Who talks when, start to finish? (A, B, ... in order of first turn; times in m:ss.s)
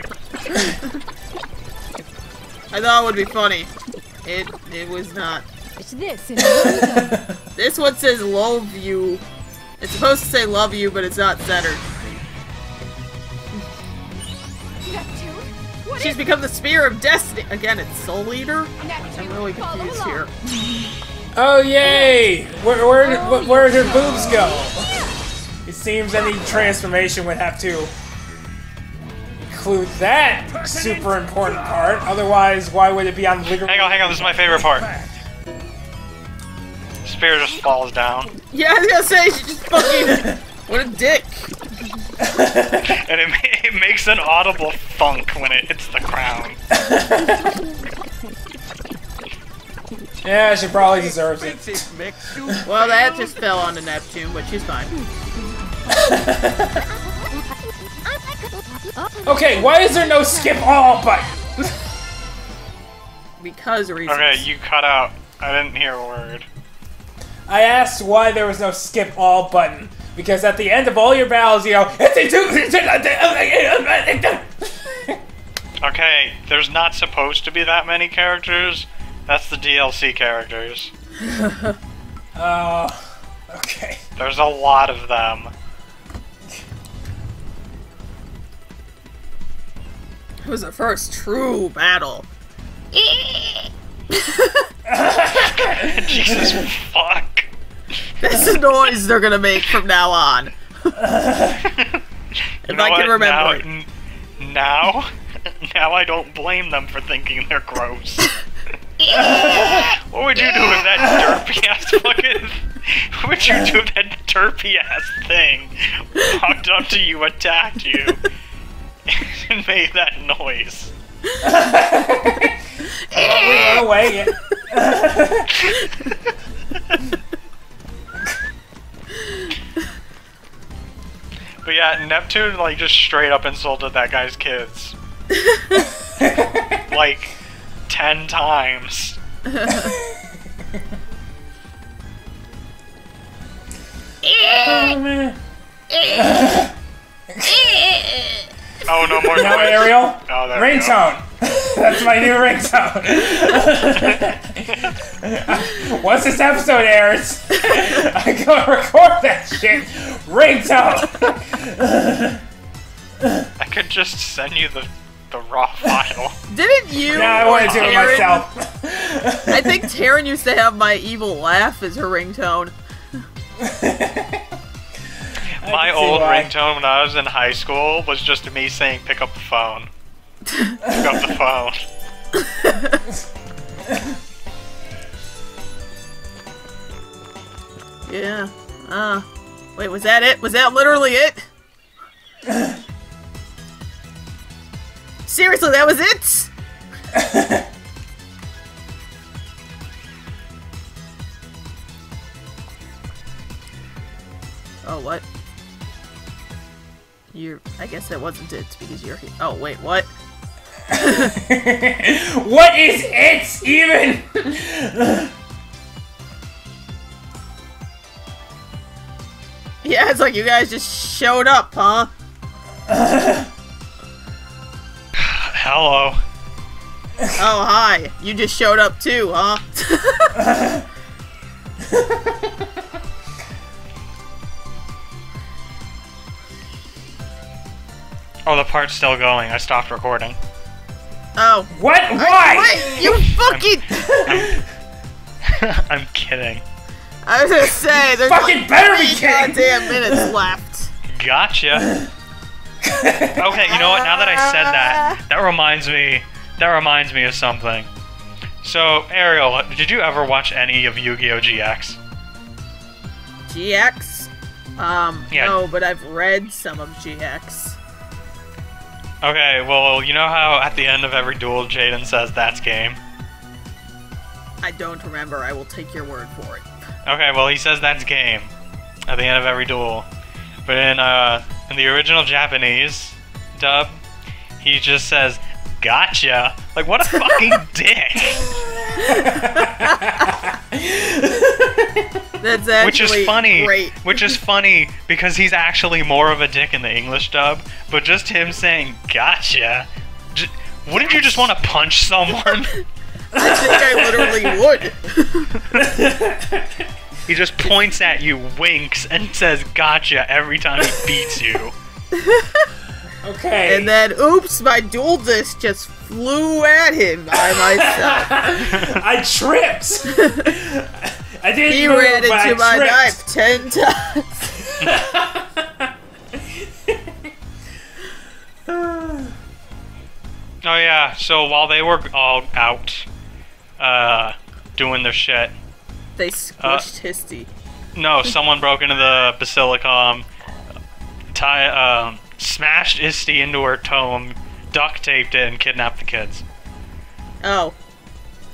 0:00.5-0:00.9 A
0:02.7-0:03.7 A
0:04.2-0:05.4 A
0:05.8-0:07.2 B
0:06.4-0:07.4 C
0:07.5-0:09.2 A
0:09.8-0:12.0 A
0:14.8-0:16.2 B
0:15.9-0:20.8 A
0:18.8-0:20.2 B
0:21.3-0:25.0 C
0:21.8-0:22.1 B
0:23.0-0:24.7 B
0:25.6-0:27.9 C
0:29.4-0:35.2 C
0:33.6-0:34.9 D
0:37.0-0:38.4 D
0:38.5-0:41.5 A
0:40.0-0:40.4 C
0:42.2-0:42.9 C
0:42.8-0:46.6 D
0:46.7-0:47.6 C
0:50.2-0:52.6 C
0:52.6-0:54.9 A
0:55.9-0:56.8 C
0:56.9-1:00.8 B
0:59.2-1:01.5 C
1:03.4-1:04.5 A
1:04.1-1:06.5 D
1:07.5-1:15.2 C
1:15.8-1:20.9 D
1:21.2-1:21.8 A
1:22.3-1:24.0 C
1:24.2-1:25.5 D
1:30.4-1:32.3 A
1:32.9-1:34.7 A
1:34.9-1:36.6 C
1:35.3-1:37.5 D
1:38.2-1:41.0 A
1:41.0-1:41.6 C
1:41.6-1:42.0 D
1:42.6-1:43.9 D
1:42.6-1:43.6 A
1:44.4-1:48.3 D
1:49.0-1:49.8 A
1:49.1-1:49.9 C
1:49.4-1:58.2 D
1:50.4-1:50.8 A
1:51.0-1:51.4 C
1:59.1-2:00.9 D
2:01.4-2:02.6 C
2:03.1-2:03.8 A
2:03.1-2:05.7 C
2:03.3-2:03.9 D
2:11.6-2:15.0 D
2:15.3-2:15.9 A
2:16.2-2:16.8 C
2:16.8-2:17.4 D
2:17.9-2:19.2 D
2:19.5-2:20.0 A
2:19.7-2:20.2 C
2:24.2-2:25.0 A
2:24.5-2:25.4 C
2:25.9-2:26.4 A
2:26.0-2:26.7 C
2:27.3-2:27.7 C
2:27.4-2:28.4 A
2:28.8-2:31.0 D
2:29.3-2:42.4 C
2:33.9-2:35.0 D
2:37.5-2:38.0 A
2:43.2-2:43.5 C
2:43.6-2:46.4 D
2:46.5-2:48.4 A
2:47.1-2:49.9 C
2:47.4-2:48.3 D
2:49.5-2:52.7 A
2:53.6-2:54.5 C
2:55.6-2:59.9 D
2:55.6-2:56.5 C
3:00.5-3:00.8 A
3:00.8-3:01.8 D
3:02.4-3:03.0 A
3:08.1-3:09.2 A
3:09.8-3:11.4 A
3:15.2-3:16.5 A
3:17.1-3:17.6 C
3:24.8-3:25.2 A
3:27.3-3:30.1 A
3:30.9-3:35.3 C
3:30.9-3:31.3 A
3:39.8-3:42.1 A
3:42.9-3:43.5 C
3:45.2-3:46.2 D
3:47.3-3:50.4 A
3:50.4-3:50.8 C
3:51.8-3:52.6 C
3:58.4-4:00.4 D
4:01.4-4:04.4 A
4:01.7-4:03.2 C
4:03.2-4:04.6 D
4:04.0-4:04.6 C
4:05.4-4:06.6 D
4:07.2-4:10.9 A
4:07.8-4:10.3 C
4:11.1-4:11.9 D
4:11.7-4:12.1 C
4:12.8-4:13.9 C
4:13.4-4:17.9 D
4:13.7-4:15.2 A
4:18.6-4:22.0 D
4:23.5-4:27.8 A
4:29.2-4:33.0 D
4:34.6-4:36.6 A
4:37.0-4:38.5 D
4:39.1-4:40.1 D
4:40.6-4:44.0 D
4:44.6-4:48.5 D
4:48.5-4:52.2 C
4:49.0-4:50.4 A
4:52.4-4:54.3 A
4:52.8-5:02.8 D
5:00.9-5:01.5 A
5:03.3-5:05.5 A
5:03.3-5:04.6 C
5:05.8-5:06.8 C
5:07.2-5:11.7 D
5:12.1-5:12.7 A
5:13.2-5:13.9 C
5:13.6-5:18.4 A
5:17.3-5:23.2 C
5:18.7-5:19.0 D
5:20.1-5:20.5 A
5:21.7-5:24.6 A
5:24.7-5:27.3 C
5:28.7-5:29.3 C
5:30.6-5:33.1 D
5:33.8-5:35.5 D
5:36.2-5:37.5 A
5:36.6-5:36.9 D
5:37.9-5:40.3 D
5:41.3-5:46.4 D
5:47.4-5:47.8 A